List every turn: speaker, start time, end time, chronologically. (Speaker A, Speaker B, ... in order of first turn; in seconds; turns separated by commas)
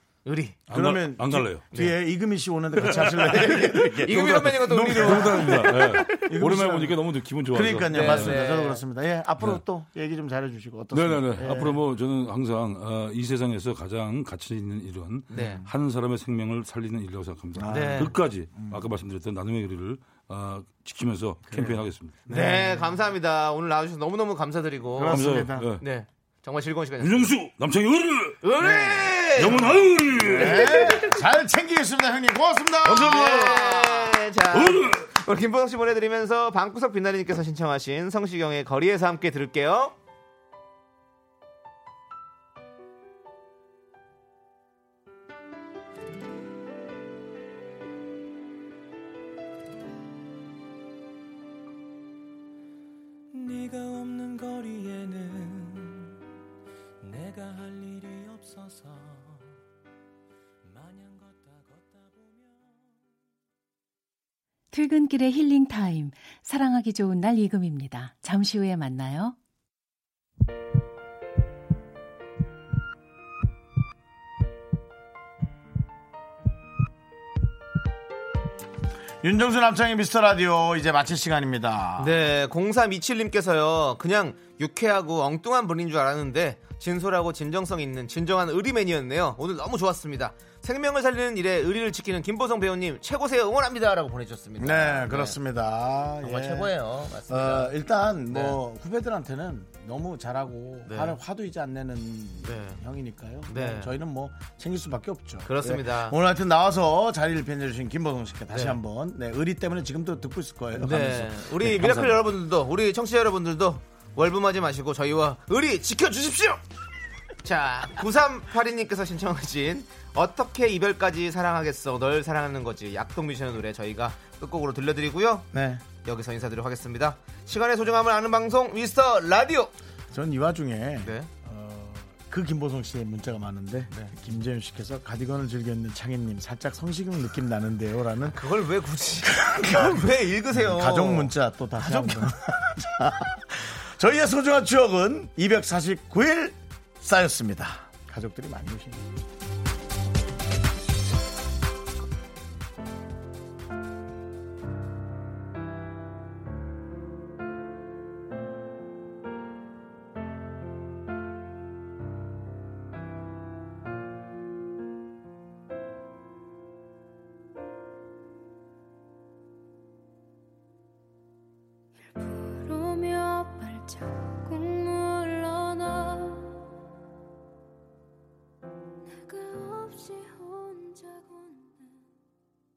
Speaker A: 0.3-0.6, Speaker B: 0.7-1.6, Speaker C: 0.7-7.0, Speaker A: 1.7-2.0, Speaker A: 2.9-6.3, Speaker B: 4.0-8.5, Speaker C: 7.5-11.8, Speaker A: 7.9-8.8, Speaker B: 10.9-22.2, Speaker A: 15.3-15.7, Speaker C: 15.3-15.7, Speaker C: 17.6-18.8, Speaker A: 17.7-18.1, Speaker C: 21.5-22.9, Speaker A: 22.3-25.2, Speaker C: 25.0-25.7, Speaker B: 25.1-25.9, Speaker A: 25.8-27.3, Speaker B: 27.0-28.4, Speaker A: 28.4-31.2, Speaker C: 28.6-34.1, Speaker B: 29.2-31.0, Speaker B: 32.9-33.4, Speaker A: 32.9-39.9, Speaker B: 34.5-35.1, Speaker D: 53.4-56.1, Speaker D: 57.0-59.4, Speaker D: 60.7-62.4, Speaker E: 64.7-69.4, Speaker C: 79.2-82.1, Speaker A: 82.0-95.4, Speaker C: 94.6-112.3, Speaker A: 96.2-97.7, Speaker A: 98.3-98.6, Speaker A: 100.9-101.2, Speaker A: 102.5-102.8, Speaker A: 103.5-103.9, Speaker A: 105.5-106.2, Speaker A: 108.5-108.8, Speaker A: 110.8-116.6, Speaker A: 117.4-125.5, Speaker C: 125.5-125.8, Speaker A: 126.0-129.7, Speaker C: 130.1-138.4, Speaker A: 131.0-131.3, Speaker A: 138.2-142.8, Speaker C: 139.2-149.1, Speaker F: 172.1-176.5, Speaker F: 179.1-182.0